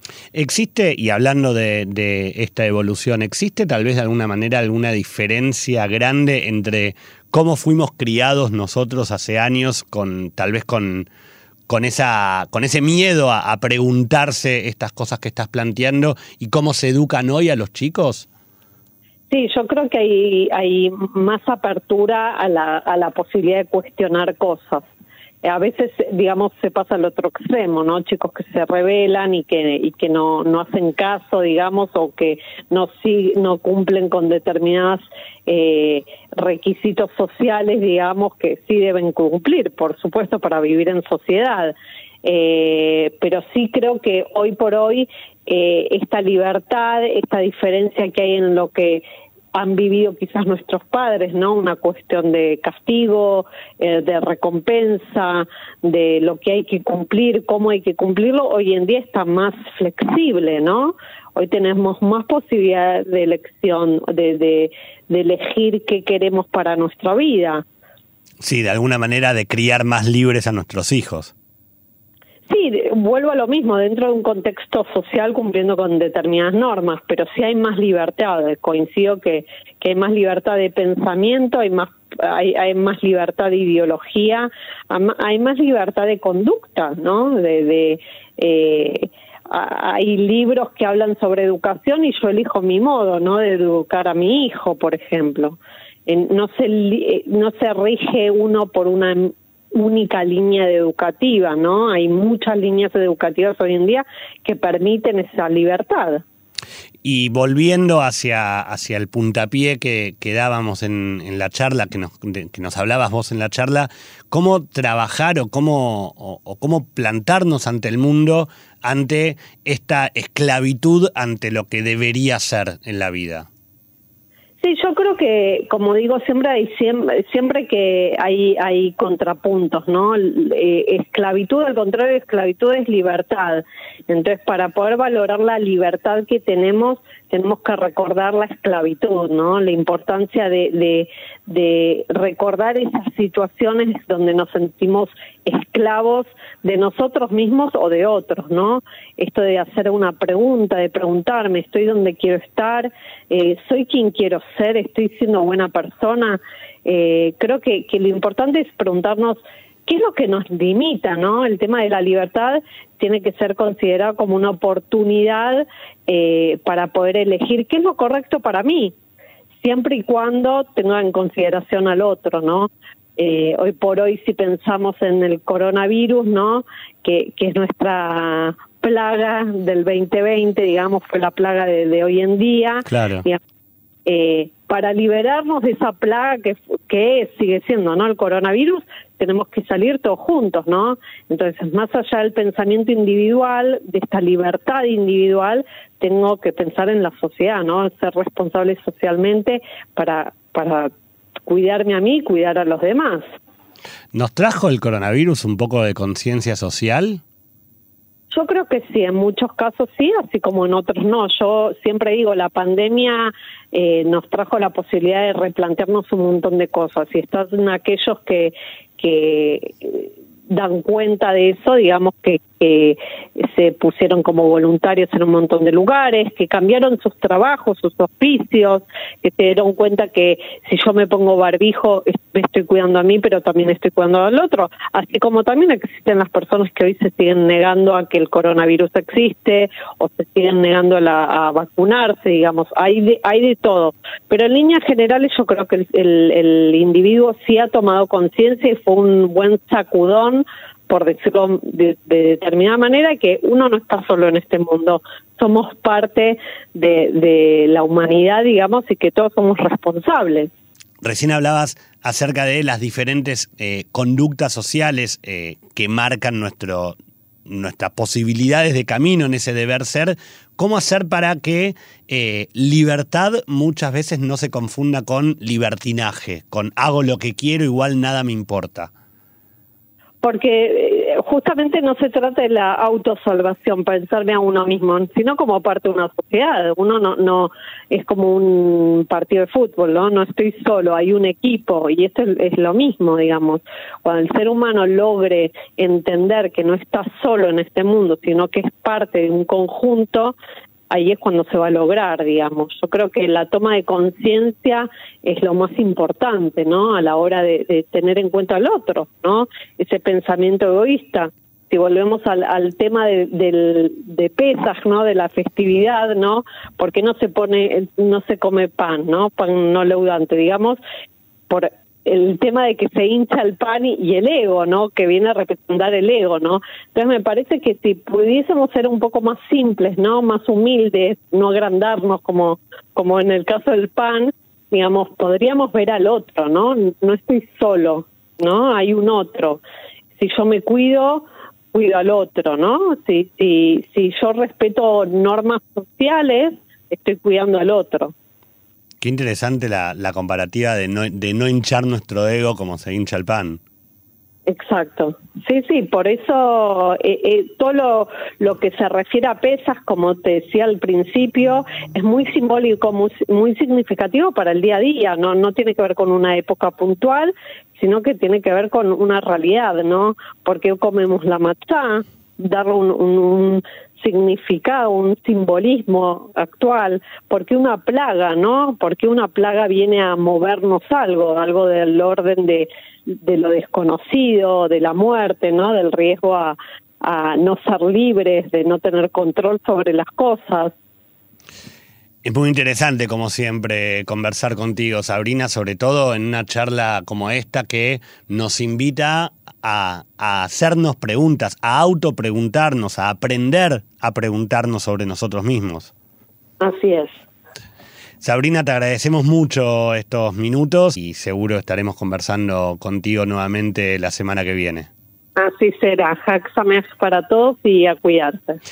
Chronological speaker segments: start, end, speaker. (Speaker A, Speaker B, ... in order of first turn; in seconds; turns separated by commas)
Speaker A: 0.3-11.1, Speaker A: 11.7-18.3, Speaker B: 19.3-24.9, Speaker B: 25.4-67.6, Speaker A: 68.4-71.3, Speaker B: 72.5-106.2, Speaker A: 107.0-123.5, Speaker B: 124.6-168.9, Speaker B: 169.6-183.4, Speaker A: 182.9-183.2, Speaker B: 184.1-200.9, Speaker B: 201.5-203.2, Speaker A: 204.1-207.2, Speaker B: 208.3-260.5, Speaker A: 261.0-278.9, Speaker B: 280.2-300.4, Speaker B: 300.9-320.8, Speaker B: 321.5-339.6, Speaker B: 340.1-348.1, Speaker A: 349.0-353.6, Speaker B: 354.5-390.7, Speaker A: 392.2-405.9, Speaker B: 406.6-407.2, Speaker A: 408.2-414.9, Speaker B: 415.4-418.6